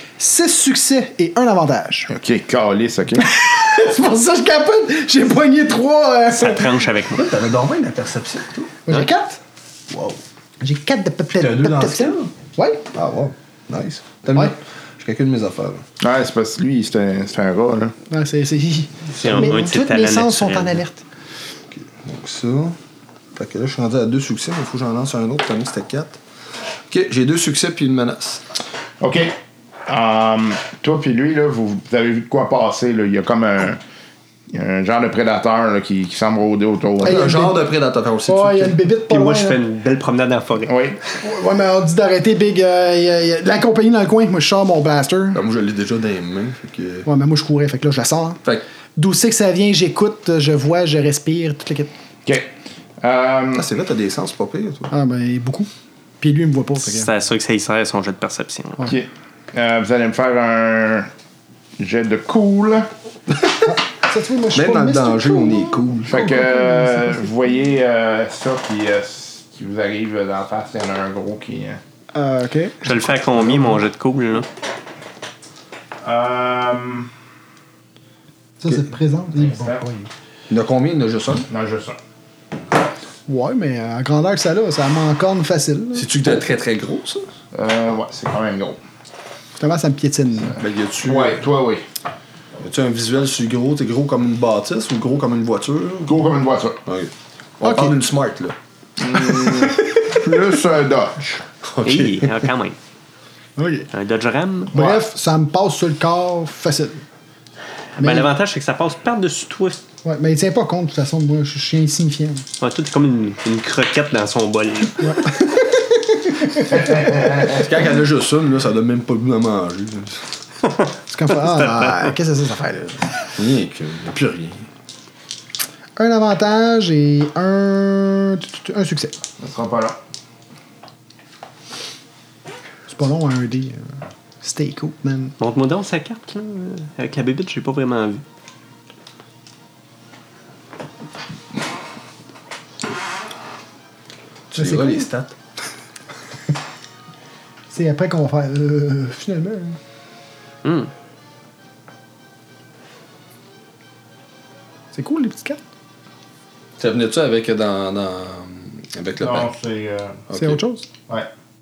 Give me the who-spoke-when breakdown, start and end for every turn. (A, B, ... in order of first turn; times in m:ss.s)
0:00.2-0:02.1 A
0:02.1-0:03.3 B
0:03.2-0:06.7 A
0:06.3-0:07.3 C
0:07.1-0:08.9 D
0:08.9-0:09.4 A
0:09.9-0:10.2 D
0:10.6-0:12.8 A
0:11.3-0:12.3 D
0:12.9-0:15.8 D
0:16.0-0:17.9 B
0:18.1-0:21.0 A
0:19.2-0:20.8 C
0:21.7-0:22.8 D
0:23.4-0:26.2 D
0:26.9-0:28.4 D
0:29.0-0:29.4 B
0:29.9-0:33.8 B
0:34.5-0:37.3 B
0:37.0-0:37.6 A
0:37.0-0:38.9 D
0:38.3-0:39.6 A
0:39.1-0:40.8 C
0:40.7-0:41.0 B
0:41.2-0:45.4 A
0:45.3-0:47.1 D
0:47.1-0:48.4 A
0:49.0-0:51.9 A
0:53.0-0:53.7 B
0:53.5-0:54.9 D
0:54.9-0:55.7 A
0:56.2-0:57.1 A
0:56.8-0:58.9 C
0:58.9-1:01.1 B
1:01.8-1:02.9 B
1:03.3-1:03.7 D
1:03.6-1:07.2 A
1:04.5-1:06.6 D
1:06.1-1:11.8 B
1:12.1-1:13.6 A
1:12.8-1:14.5 C
1:16.0-1:17.1 B
1:18.6-1:20.1 A
1:19.4-1:19.8 B
1:20.5-1:21.5 D
1:21.5-1:22.0 B
1:23.3-1:26.1 A
1:26.0-1:27.3 D
1:27.5-1:28.8 B
1:29.6-1:30.6 A
1:30.6-1:31.4 D
1:31.0-1:31.9 B
1:32.6-1:36.3 D
1:36.1-1:36.8 B
1:36.8-1:38.6 D
1:37.6-1:37.9 A
1:39.0-1:41.4 B
1:39.1-1:40.0 D
1:41.6-1:42.5 D
1:41.8-1:42.8 C
1:43.6-1:43.9 A
1:43.9-1:45.0 C
1:44.7-1:47.0 A
1:48.0-1:49.8 C
1:48.0-1:48.3 A
1:50.0-1:52.4 A
1:52.6-1:55.1 C
1:55.0-1:57.6 A
1:57.2-1:57.6 B
1:57.4-2:00.2 D
2:01.1-2:03.1 A
2:01.4-2:02.1 C
2:03.4-2:04.7 D
2:06.0-2:09.2 A
2:09.4-2:10.0 B
2:12.9-2:13.9 A
2:14.4-2:15.3 A
2:15.4-2:18.2 C
2:24.5-2:25.4 D
2:24.6-2:25.1 A
2:27.7-2:29.8 A
2:30.6-2:30.9 C
2:34.9-2:35.6 A
2:36.8-2:39.5 D
2:39.2-2:40.2 B
2:40.3-2:40.6 D
2:40.4-2:40.9 A